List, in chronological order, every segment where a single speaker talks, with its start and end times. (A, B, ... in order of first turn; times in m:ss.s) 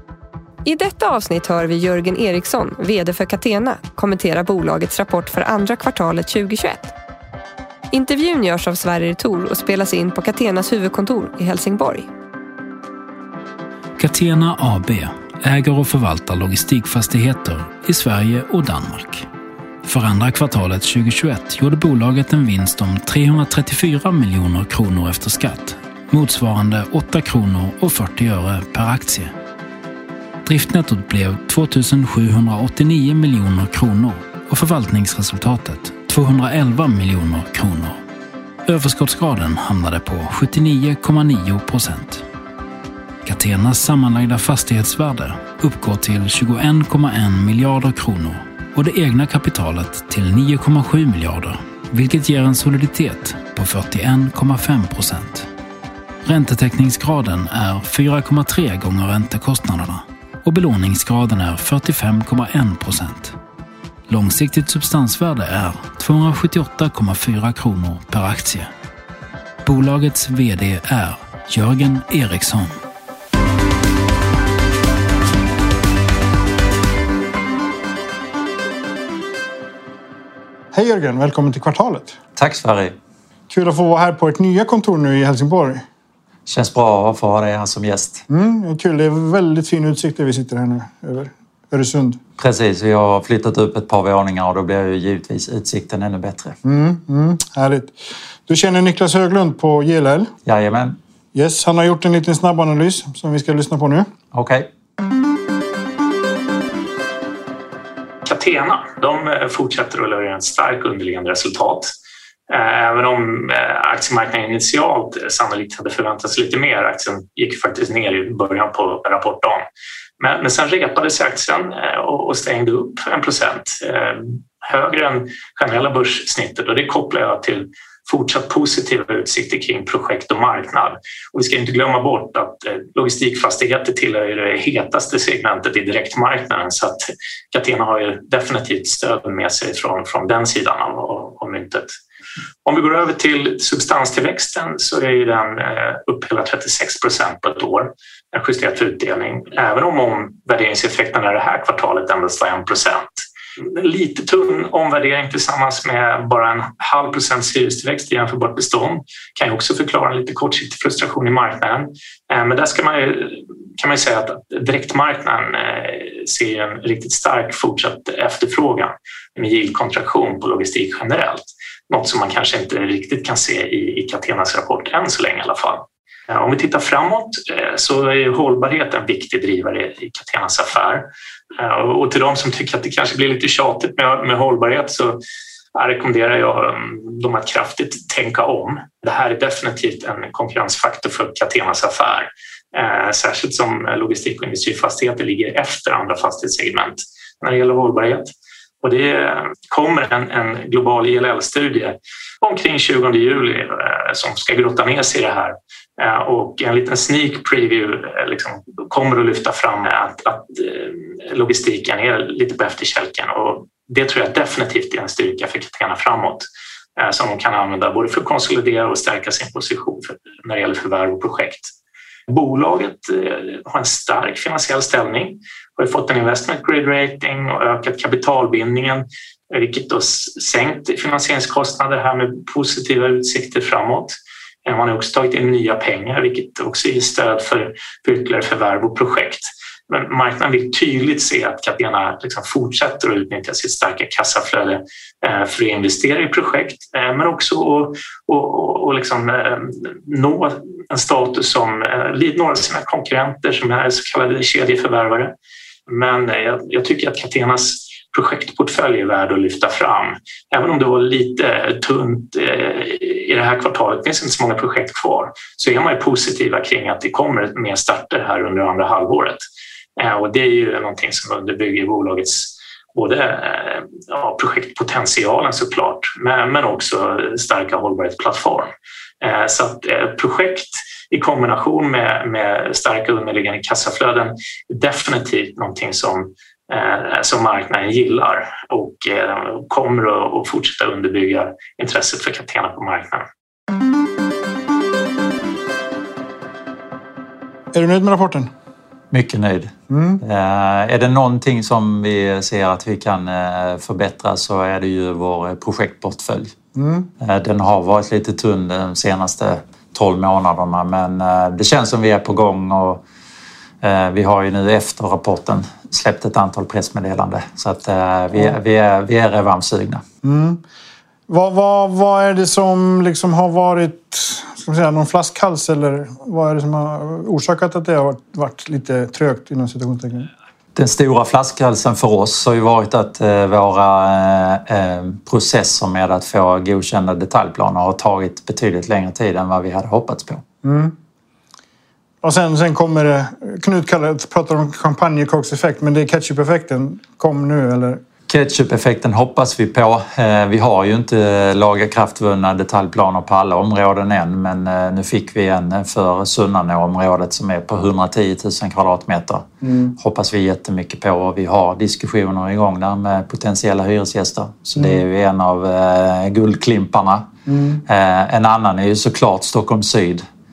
0:00.6-0:06.9 A
0:07.9-0:12.1 A
0:14.0-0:19.3 B
0:19.8-0:29.3 B
0:30.4-0:38.0 B
0:38.7-0:42.2 B
0:43.2-0:55.5 B
0:56.2-1:03.4 B
1:04.1-1:08.7 B
1:09.6-1:12.8 B
1:20.7-1:22.2 C
1:22.4-1:23.0 D
1:23.5-1:25.8 C
1:26.5-1:28.3 D
1:28.3-1:32.2 C
1:32.4-1:36.6 D
1:36.6-1:40.3 C
1:40.4-1:41.0 D
1:41.3-1:44.1 C
1:44.3-1:44.7 D
1:48.2-1:51.9 E
1:52.5-1:59.6 E
2:00.2-2:21.9 E
2:22.6-3:05.2 E
3:05.8-3:36.4 E
3:37.0-3:41.7 E
3:42.3-4:15.3 E
4:15.9-4:29.4 E
4:30.0-4:53.3 E
4:57.7-4:58.5 C
4:59.1-5:06.6 D
4:59.9-5:00.2 C
5:06.8-5:07.1 C
5:07.2-5:13.0 D
5:13.8-5:20.0 D
5:20.2-5:20.6 C
5:21.3-5:30.3 C
5:30.8-5:40.4 D
5:40.6-5:41.0 C
5:42.2-5:48.0 C
5:48.3-6:07.3 D
5:59.6-5:59.9 C
6:07.5-6:07.8 C
6:07.8-6:10.2 D